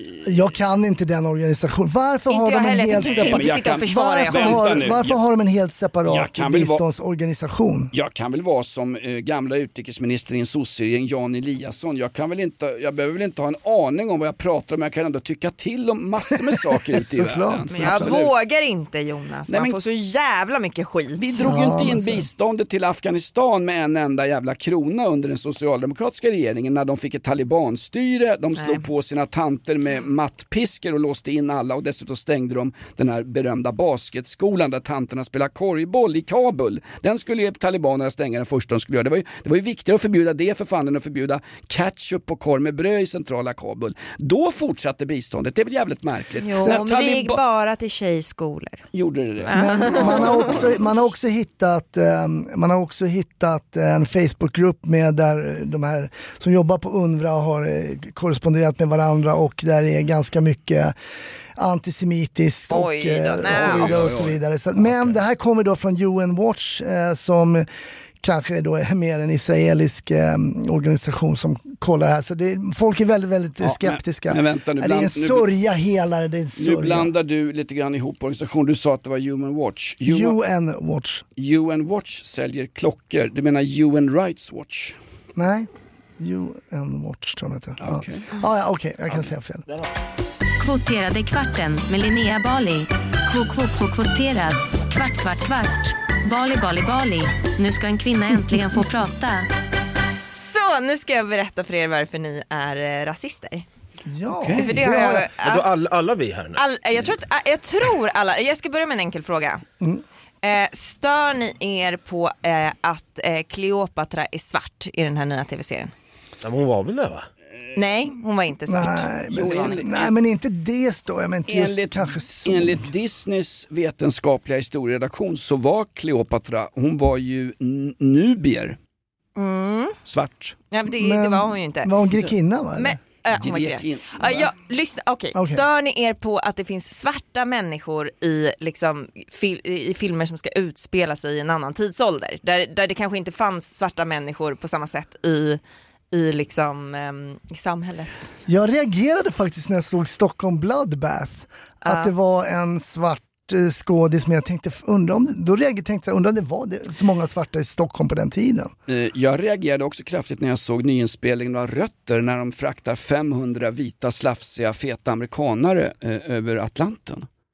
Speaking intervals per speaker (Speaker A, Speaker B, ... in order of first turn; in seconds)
Speaker A: 0.2-7.9, 16.7-18.2, 21.4-22.3, 49.5-60.9, 61.6-67.7, 68.2-77.1, 80.0-81.2, 85.3-89.6, 104.1-105.3, 118.7-122.9, 131.0-133.0, 135.3-135.6, 148.5-158.7
Speaker B: 2.3-4.8, 17.7-21.5, 28.6-28.8, 46.4-48.8, 49.5-50.5, 62.7-64.0, 100.3-103.6, 104.6-105.7, 106.5-109.6, 110.4-115.9, 117.7-119.8, 129.3-130.0, 130.7-131.9, 132.8-145.6, 146.1-148.3, 151.8-152.1
Speaker C: 3.0-5.2, 6.1-6.8, 7.9-18.3, 19.5-19.7, 21.2-47.4, 48.9-50.8, 63.5-65.2, 73.6-75.5, 76.6-80.4, 81.4-85.0, 87.8-88.3, 104.3-104.8, 119.3-120.1, 121.5-128.8, 130.0-130.6, 133.3-134.5, 158.9-167.3
Speaker D: 90.6-99.5
Speaker E: 105.0-106.6, 116.4-117.3